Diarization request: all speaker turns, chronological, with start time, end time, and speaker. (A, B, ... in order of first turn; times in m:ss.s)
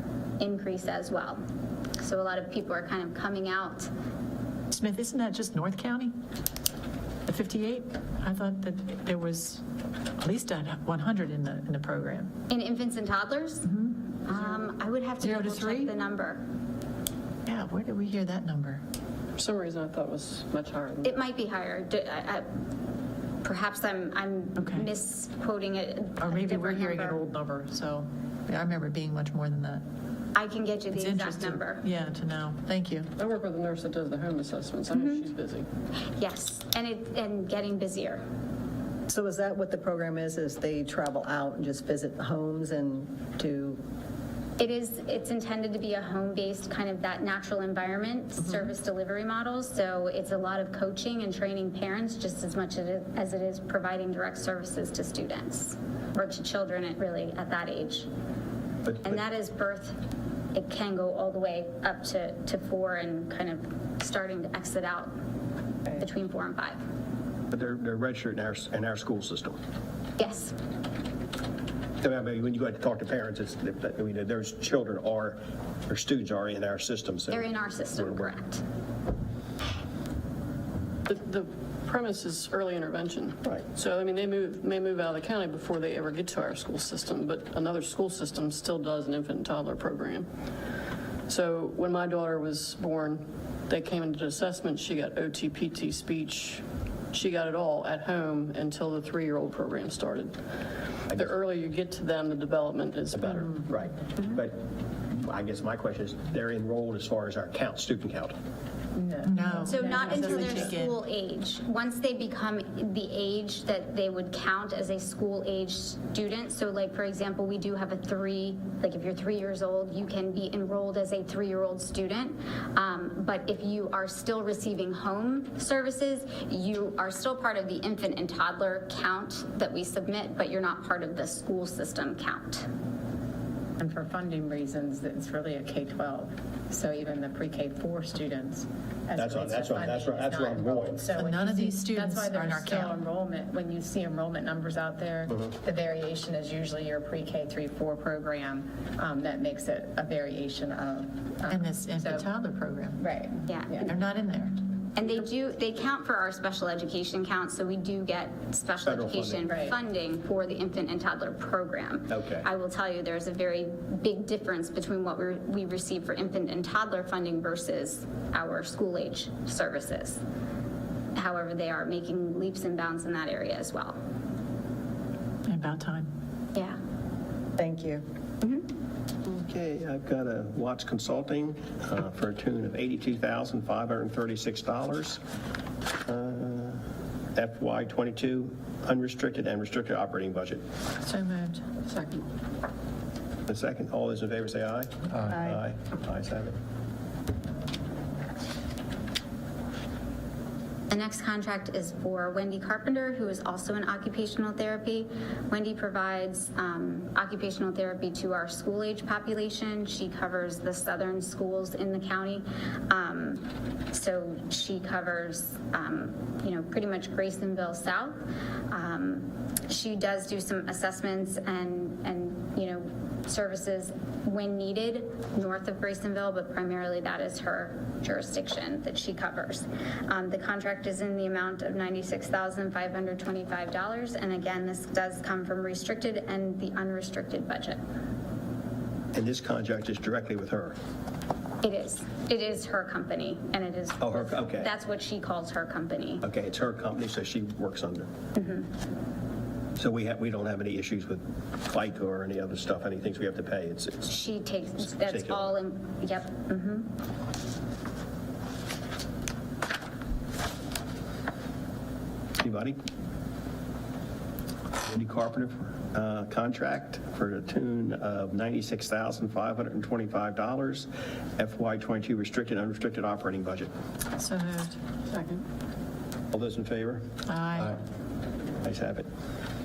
0:00.4-0:01.4 A
0:02.0-0:03.9 A
0:04.7-0:06.1 B
0:07.3-0:09.6 B
0:10.2-0:12.3 B
0:12.5-0:16.4 A
0:13.7-0:13.9 B
0:15.2-0:15.9 B
0:17.4-0:18.8 B
0:19.4-0:21.2 C
0:21.0-0:22.5 A
0:23.4-0:27.2 A
0:24.6-0:24.9 B
0:26.2-0:29.8 B
0:30.3-0:31.8 A
0:30.9-0:33.1 B
0:33.2-0:35.7 C
0:34.9-0:35.2 A
0:36.1-0:38.2 A
0:39.1-0:43.8 D
0:44.6-0:58.1 A
0:58.8-0:59.2 E
0:59.0-1:00.0 A
1:00.5-1:05.1 A
1:05.9-1:06.8 A
1:07.5-1:09.6 E
1:10.2-1:10.6 A
1:12.0-1:18.3 E
1:17.3-1:18.6 A
1:21.0-1:30.3 C
1:31.3-1:40.4 C
1:41.1-1:43.5 C
1:43.1-1:48.3 E
1:48.9-1:50.7 F
1:49.2-1:51.0 B
1:49.6-2:12.7 A
2:13.8-2:32.2 F
2:19.2-2:21.1 E
2:21.2-2:23.0 B
2:31.5-2:33.0 B
2:33.0-2:33.9 F
2:33.4-2:33.9 A
2:33.8-2:34.6 B
2:34.9-2:50.2 A
2:38.8-2:39.5 E
2:42.1-2:42.5 E
2:51.1-2:54.0 A
2:55.4-2:56.1 B
2:56.5-2:56.8 A
2:57.6-2:58.0 D
2:59.2-3:05.2 E
3:06.0-3:06.8 E
3:07.3-3:10.6 E
3:11.0-3:11.6 B
3:11.8-3:12.3 C
3:13.5-3:16.6 E
3:20.9-3:57.8 A
3:59.1-4:00.8 E
4:01.6-4:06.2 A
4:04.0-4:04.7 E
4:06.2-4:08.1 E
4:08.4-4:08.7 A
4:09.8-4:14.1 E
4:14.1-4:16.9 A
4:15.0-4:15.5 E
4:22.4-4:22.8 E
4:24.8-4:33.7 E
4:34.2-4:34.8 B
4:35.1-4:35.4 C
4:36.3-4:37.0 E
4:37.3-4:37.8 B
4:38.6-4:39.1 E